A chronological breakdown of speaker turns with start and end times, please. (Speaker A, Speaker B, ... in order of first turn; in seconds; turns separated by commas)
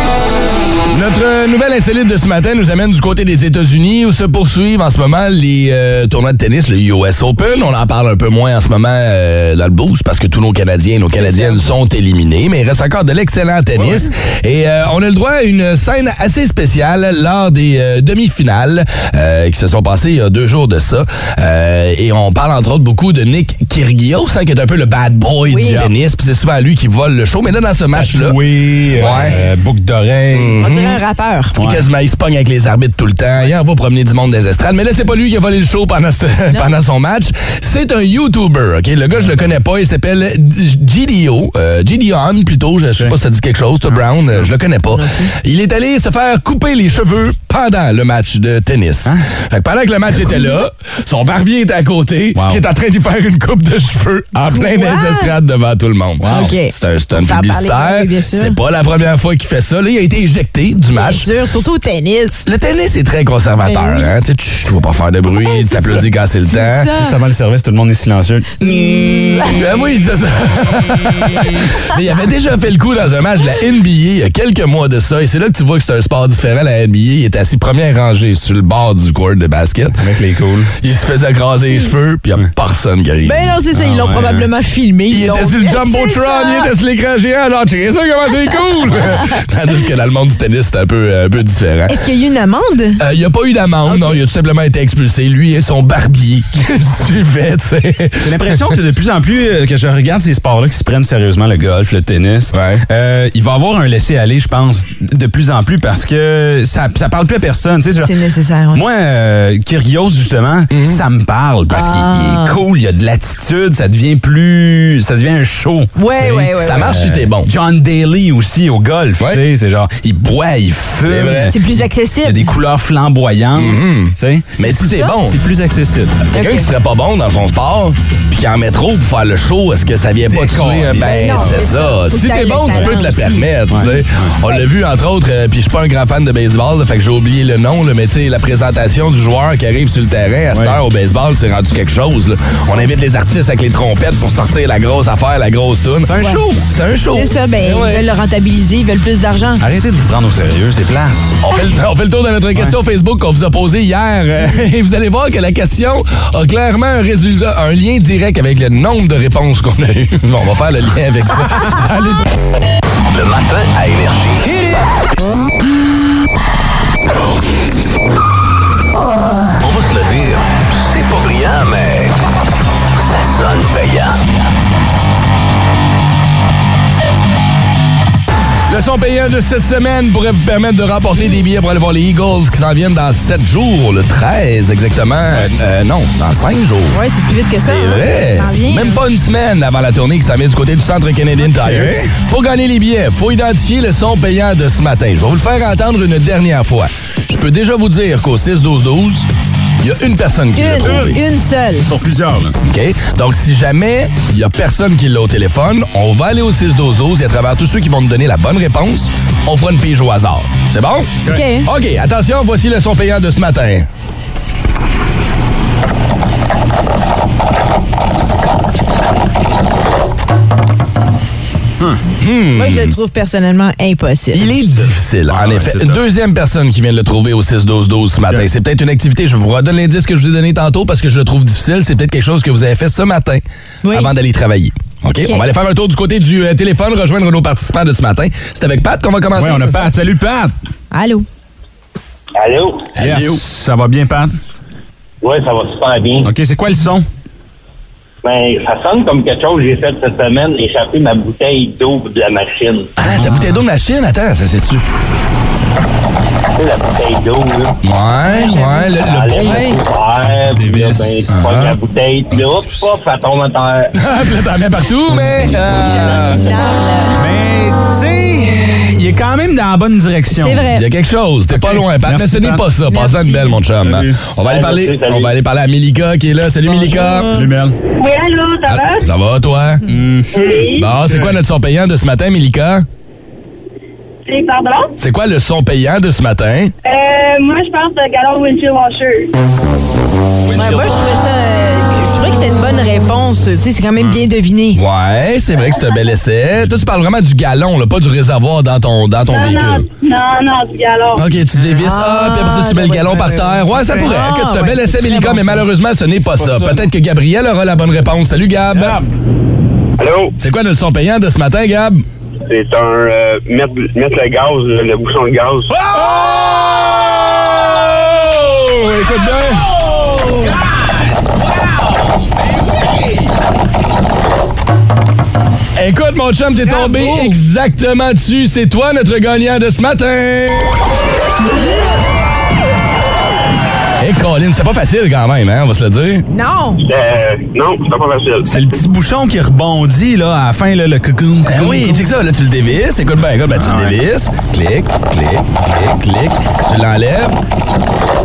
Speaker A: 0.9-28.4, Speaker B: 11.2-11.6, Speaker C: 13.8-14.1, Speaker B: 25.4-25.8, Speaker C: 27.9-30.6, Speaker A: 28.9-29.4, Speaker A: 30.3-31.0, Speaker B: 30.6-31.6, Speaker C: 31.6-31.8, Speaker A: 31.6-61.3, Speaker C: 39.1-39.5, Speaker B: 44.9-45.3, Speaker C: 52.3-52.6, Speaker B: 54.5-55.3, Speaker C: 56.2-56.5, Speaker B: 56.3-58.6, Speaker B: 60.9-62.4, Speaker A: 62.5-66.9, Speaker B: 63.6-64.1, Speaker B: 65.4-67.1, Speaker C: 67.0-69.6, Speaker B: 68.6-69.5, Speaker A: 69.5-80.0, Speaker C: 80.0-80.7, Speaker A: 80.8-83.5, Speaker B: 83.2-86.7, Speaker C: 83.7-84.5, Speaker A: 85.1-92.0, Speaker B: 91.9-93.0, Speaker A: 93.0-98.7, Speaker B: 93.8-94.2, Speaker C: 98.2-108.1, Speaker A: 102.5-102.8, Speaker B: 108.0-108.8, Speaker C: 108.7-126.2, Speaker A: 110.7-111.0, Speaker B: 111.7-112.6, Speaker B: 116.0-116.9, Speaker A: 116.6-117.5, Speaker A: 121.0-121.5, Speaker B: 121.5-122.4, Speaker A: 123.6-125.4, Speaker B: 126.3-126.7, Speaker A: 126.3-146.2, Speaker C: 130.3-131.6, Speaker B: 131.0-133.5, Speaker C: 133.7-134.3, Speaker C: 140.5-140.8, Speaker C: 146.1-146.6, Speaker A: 146.7-148.0, Speaker B: 147.1-149.6, Speaker C: 149.6-151.2, Speaker A: 151.4-162.2, Speaker D: 163.1-164.5, Speaker D: 169.6-172.2, Speaker D: 173.0-174.2, Speaker A: 178.7-187.0, Speaker B: 186.9-189.0, Speaker A: 187.5-199.3, Speaker C: 191.5-192.1, Speaker A: 199.8-201.2, Speaker B: 200.5-201.9, Speaker C: 200.8-201.1, Speaker C: 201.9-202.6, Speaker A: 202.7-213.9, Speaker B: 211.3-211.7, Speaker A: 222.2-222.9, Speaker B: 222.5-224.5, Speaker A: 224.3-239.9, Speaker C: 224.3-226.0, Speaker B: 233.8-234.1, Speaker C: 239.3-240.5, Speaker B: 240.9-241.2, Speaker E: 242.4-242.9, Speaker A: 242.9-243.4, Speaker C: 243.0-244.3, Speaker E: 245.2-246.3, Speaker C: 246.2-247.1, Speaker E: 248.2-252.9, Speaker A: 253.0-254.8, Speaker C: 253.1-253.6, Speaker E: 256.6-257.8, Speaker A: 257.8-259.7, Speaker B: 258.2-259.8, Speaker E: 259.0-263.9, Speaker C: 260.5-261.3, Speaker A: 261.3-261.8, Speaker A: 263.9-266.4, Speaker C: 265.1-265.6, Speaker B: 265.8-267.2, Speaker C: 267.2-270.7, Speaker B: 270.3-270.8, Speaker A: 270.7-277.3, Speaker C: 271.5-272.6, Speaker B: 272.9-273.6, Speaker C: 273.8-274.2, Speaker E: 274.4-275.3, Speaker B: 276.6-277.5, Speaker C: 277.3-277.8, Speaker F: 278.0-279.1, Speaker A: 278.7-279.8, Speaker C: 279.9-281.4, Speaker F: 280.3-280.9, Speaker A: 280.8-282.9, Speaker F: 284.2-284.9, Speaker A: 285.0-286.7, Speaker F: 286.8-289.3, Speaker C: 290.4-291.1, Speaker B: 290.5-294.8, Speaker A: 294.7-299.9, Speaker F: 299.3-301.2, Speaker A: 301.1-309.0, Speaker B: 301.8-305.7, Speaker C: 306.4-306.9, Speaker C: 308.7-309.1, Speaker E: 310.0-310.3, Speaker A: 310.4-312.0, Speaker E: 312.5-315.7, Speaker C: 315.7-318.4, Speaker A: 318.1-319.7, Speaker C: 319.3-321.1, Speaker B: 320.1-320.5, Speaker C: 322.7-323.2, Speaker A: 325.8-330.7, Speaker B: 326.6-327.4, Speaker A: 334.0-336.2, Speaker B: 336.3-336.8, Speaker E: 336.8-338.6, Speaker C: 338.4-342.1, Speaker A: 341.4-347.4, Speaker C: 343.6-344.0